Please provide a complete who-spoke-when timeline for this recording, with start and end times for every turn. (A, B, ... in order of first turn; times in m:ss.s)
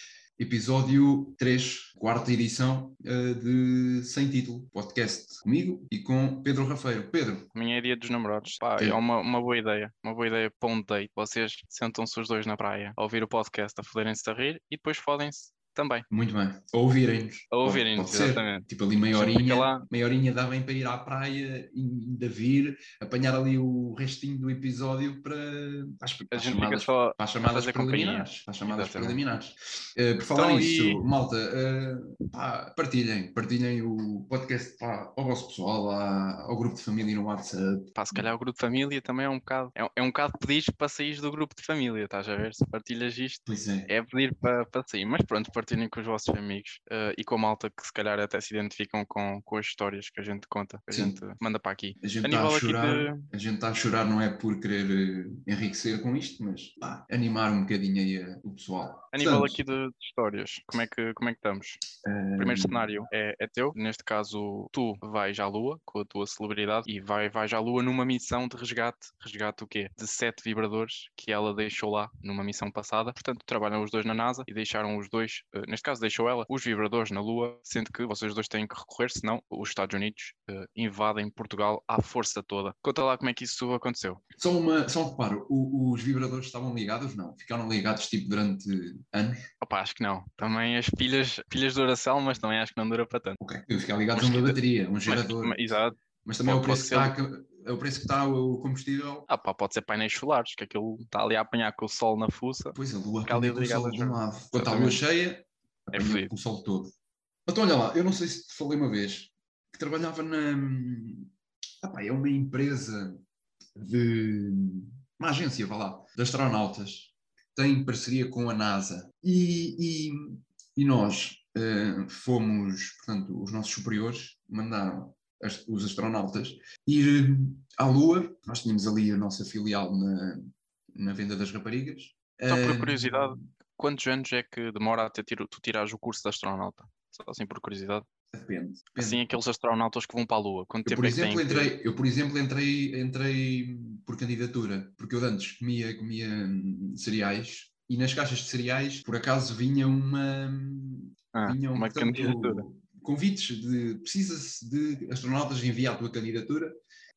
0:00.4-0:07.5 A
0:07.5-0:16.0 B
0:16.1-0:38.3 A
0:17.5-0:19.8 B
0:26.3-0:29.2 B
0:30.3-0:31.0 B
0:37.9-0:53.3 B
0:43.4-0:43.9 A
0:50.9-0:51.2 A
0:52.0-0:59.6 A
0:59.1-1:01.8 B
1:02.0-1:03.0 A
1:02.4-1:24.2 B
1:24.4-1:29.5 A
1:29.6-1:33.4 B
1:33.4-1:35.6 A
1:34.2-1:37.1 B
1:36.2-1:39.3 A
1:39.3-1:45.0 B
1:42.7-1:46.9 A
1:45.9-1:46.3 B
1:47.5-1:51.3 A
1:51.8-1:53.2 A
1:53.7-2:13.4 A
2:12.5-2:18.1 B
2:18.3-2:19.2 A
2:19.0-2:21.7 B
2:20.8-2:36.7 A
2:31.3-2:32.6 B